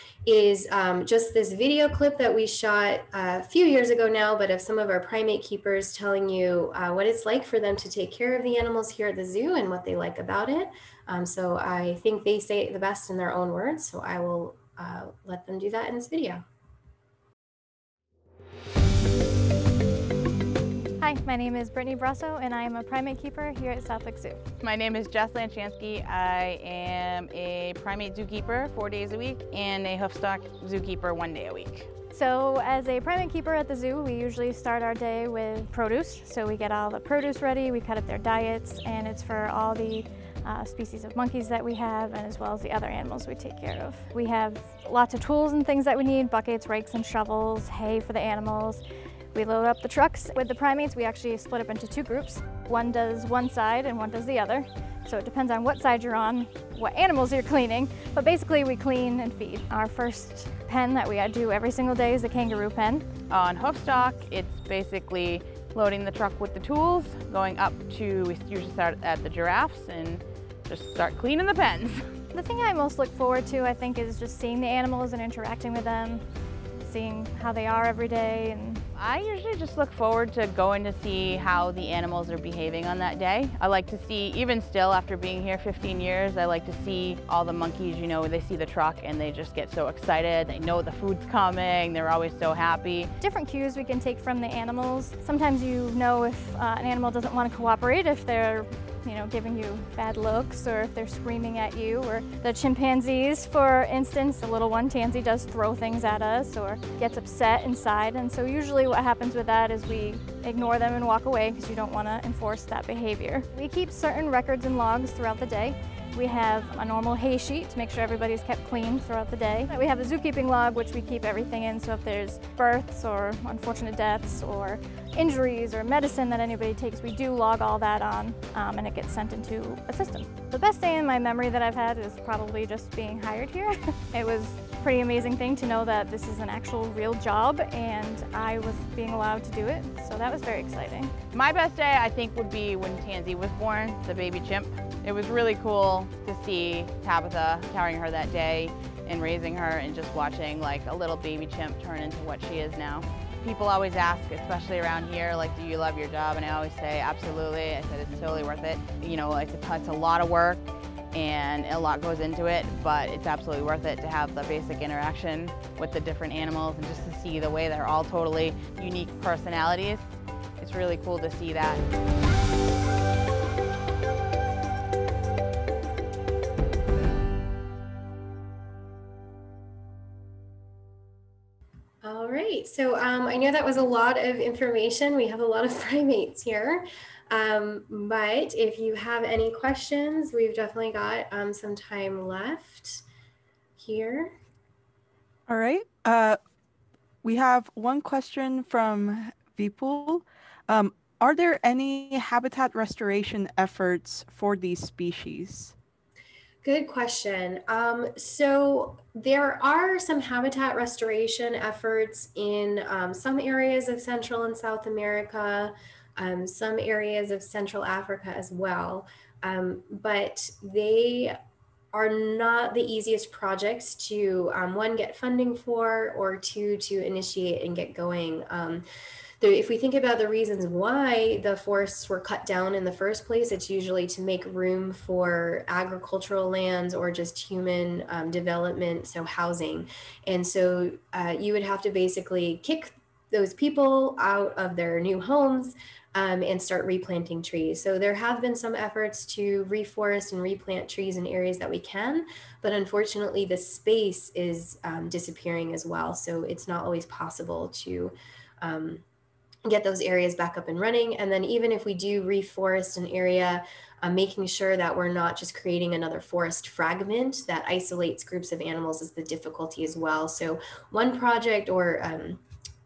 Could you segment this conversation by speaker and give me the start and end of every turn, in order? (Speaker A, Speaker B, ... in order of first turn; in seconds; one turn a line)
Speaker A: 0.2-16.4
Speaker B: 21.0-24.4
Speaker C: 24.6-31.9
Speaker B: 32.1-63.1
Speaker C: 63.3-72.1
Speaker B: 72.3-76.2
Speaker B: 76.8-78.8
Speaker C: 78.9-93.1
Speaker B: 93.2-141.1
Speaker C: 141.3-170.0
Speaker C: 170.6-171.8
Speaker A: 182.0-193.0
Speaker A: 193.8-194.4
Speaker D: 195.5-196.4
Speaker D: 197.2-205.7
Speaker A: 206.6-221.4
Speaker A: 221.9-228.8
Speaker A: 229.4-259.0
Speaker A: 259.6-272.4